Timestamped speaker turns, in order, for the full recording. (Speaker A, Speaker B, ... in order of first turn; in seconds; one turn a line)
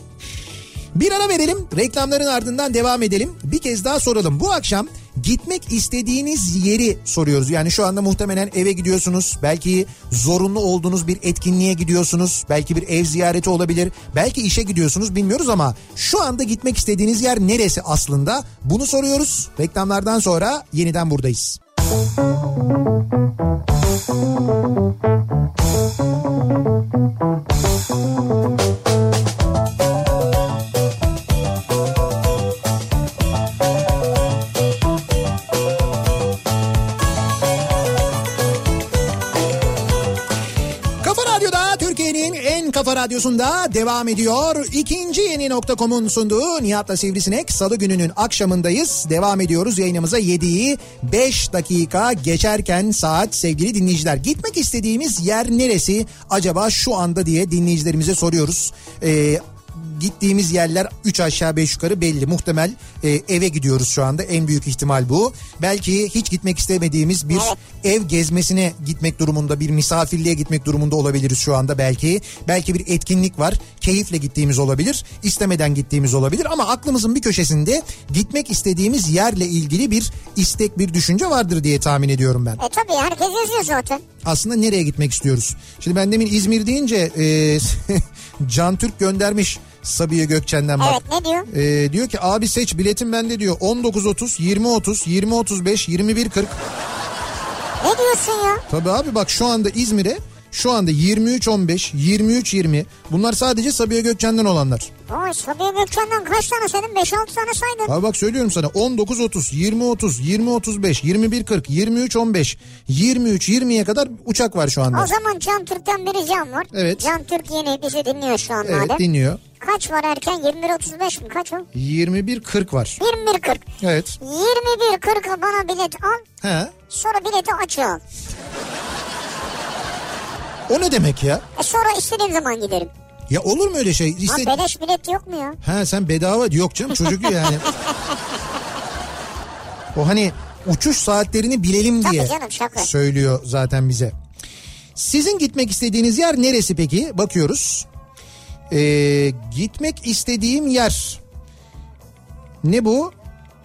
Speaker A: 0.9-21.6
Speaker A: 41.0-82.6
Speaker B: 67.3-67.6
Speaker B: 82.6-84.0
Speaker A: 84.2-96.6
Speaker B: 90.8-91.5
Speaker B: 97.8-98.7
Speaker A: 98.7-104.9
Speaker B: 105.1-107.9
Speaker A: 107.9-115.1
Speaker B: 114.9-119.0
Speaker A: 116.7-117.1
Speaker A: 118.6-119.4
Speaker B: 119.6-121.7
Speaker A: 121.7-123.0
Speaker B: 123.0-123.7
Speaker A: 123.8-124.2
Speaker B: 124.2-126.2
Speaker A: 126.4-126.7
Speaker B: 126.9-128.0
Speaker A: 130.7-131.4
Speaker B: 131.6-132.9
Speaker A: 133.3-134.7
Speaker B: 134.3-135.6
Speaker A: 135.6-137.7
Speaker A: 139.9-144.2
Speaker B: 142.0-142.9
Speaker A: 144.9-147.9
Speaker A: 148.7-151.2
Speaker A: 152.6-153.1